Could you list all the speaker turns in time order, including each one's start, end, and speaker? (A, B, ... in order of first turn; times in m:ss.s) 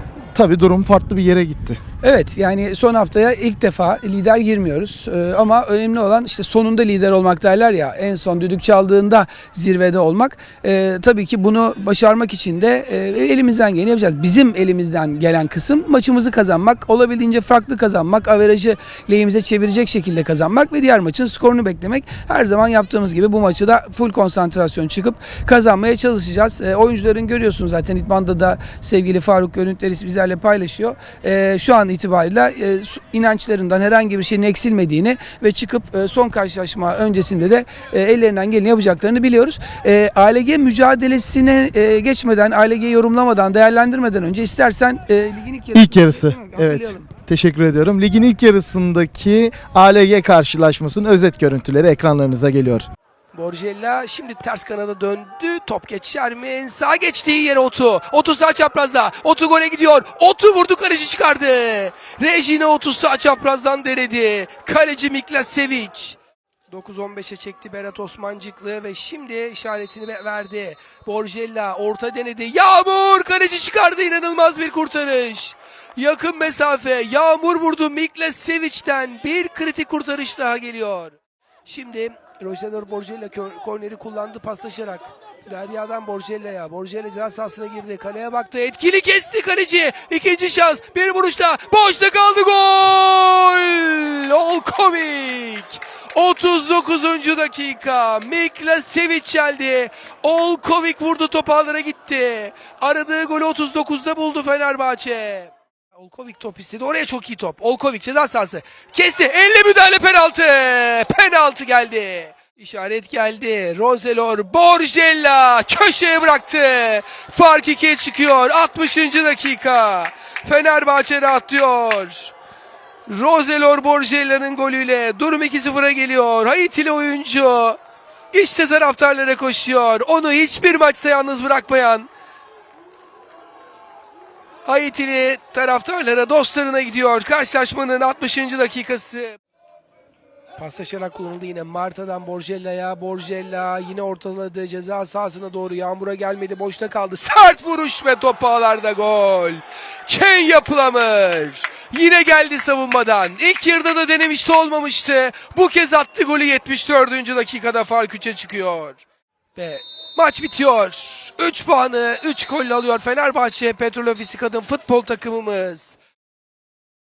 0:00.3-0:01.8 A
0:02.0-0:47.1 B
0:45.7-0:52.9 A
0:53.4-1:06.1 C
0:53.4-1:06.1 B
1:06.7-1:21.1 B
1:06.8-1:15.4 C
1:16.0-1:21.1 C
1:21.7-1:25.0 C
1:21.7-1:35.6 B
1:25.5-1:35.6 C
1:36.2-1:45.4 C
1:36.2-1:45.5 B
1:46.0-2:02.1 B
1:46.1-2:02.0 C
2:03.1-2:07.7 C
2:03.1-2:07.4 B
2:08.3-2:12.0 B
2:08.4-2:12.0 C
2:14.7-2:19.2 C
2:15.0-2:19.3 B
2:20.6-2:29.4 C
2:20.6-2:38.9 B
2:30.1-2:38.9 C
2:39.6-2:45.8 C
2:40.2-2:45.8 B